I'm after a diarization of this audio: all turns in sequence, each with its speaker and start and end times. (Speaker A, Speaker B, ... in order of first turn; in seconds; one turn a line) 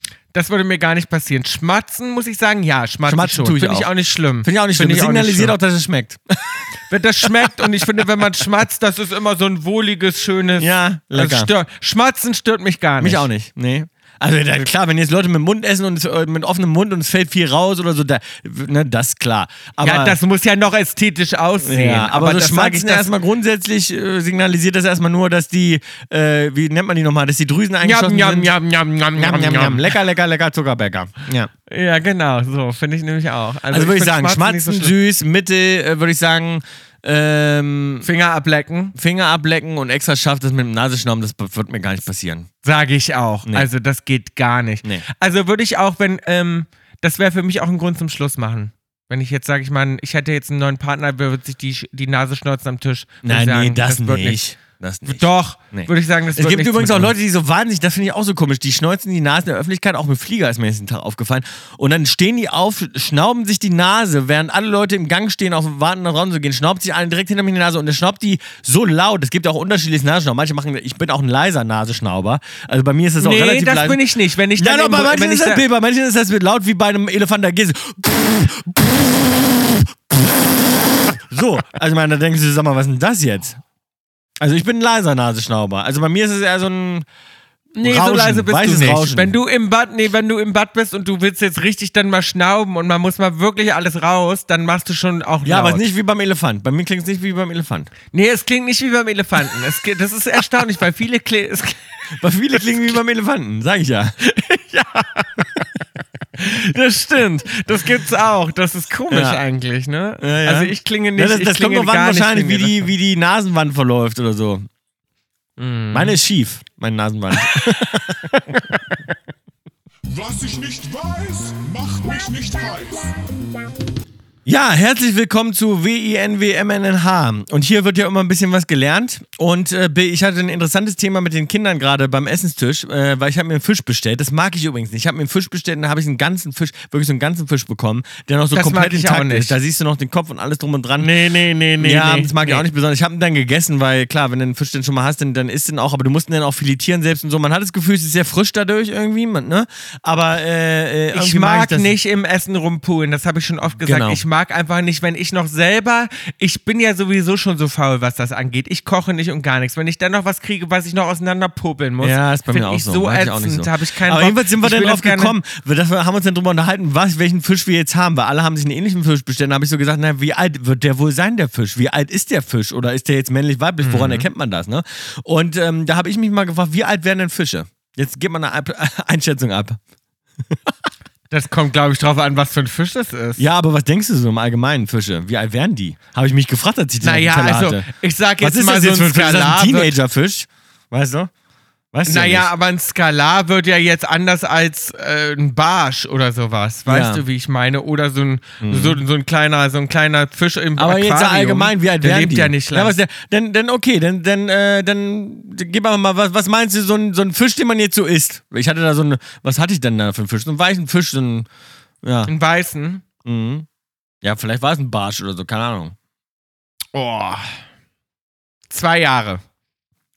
Speaker A: 0.3-5.6
Speaker B: 3.1-3.9
Speaker B: 4.4-6.7
Speaker A: 6.9-13.3
Speaker B: 10.6-11.5
Speaker B: 13.0-20.2
Speaker A: 19.8-23.1
Speaker B: 21.6-28.5
Speaker A: 27.8-29.9
Speaker B: 29.2-31.5
Speaker A: 31.7-35.0
Speaker B: 33.7-38.1
Speaker A: 38.0-38.9
Speaker B: 39.0-42.5
Speaker A: 42.6-54.4
Speaker B: 53.2-74.0
Speaker A: 55.1-57.1
Speaker A: 73.2-75.6
Speaker B: 74.6-83.6
Speaker B: 84.4-87.0
Speaker A: 87.8-95.8
Speaker B: 87.8-89.3
Speaker B: 95.4-97.9
Speaker A: 98.1-103.0
Speaker B: 102.2-104.2
Speaker A: 104.2-105.6
Speaker A: 106.4-112.9
Speaker B: 109.1-109.4
Speaker B: 110.2-114.7
Speaker A: 115.6-116.1
Speaker B: 115.9-118.3
Speaker A: 118.3-119.1
Speaker C: 120.1-123.2
Speaker B: 124.5-141.1
Speaker A: 138.6-139.6
Speaker A: 141.0-142.6
Speaker B: 141.8-151.9
Speaker A: 151.1-165.3
Speaker B: 153.9-154.2
Speaker B: 162.0-179.8
Speaker A: 173.8-174.3
Speaker A: 181.3-183.4
Speaker B: 183.4-187.9
Speaker A: 187.0-189.9
Speaker B: 188.4-191.3
Speaker B: 191.9-192.5
Speaker A: 192.1-202.9
Speaker B: 196.9-197.2
Speaker B: 198.6-199.0
Speaker B: 200.8-211.5
Speaker B: 212.0-212.3
Speaker A: 212.3-213.1
Speaker B: 213.2-213.7
Speaker B: 214.2-215.9
Speaker A: 216.9-217.6
Speaker A: 218.7-219.4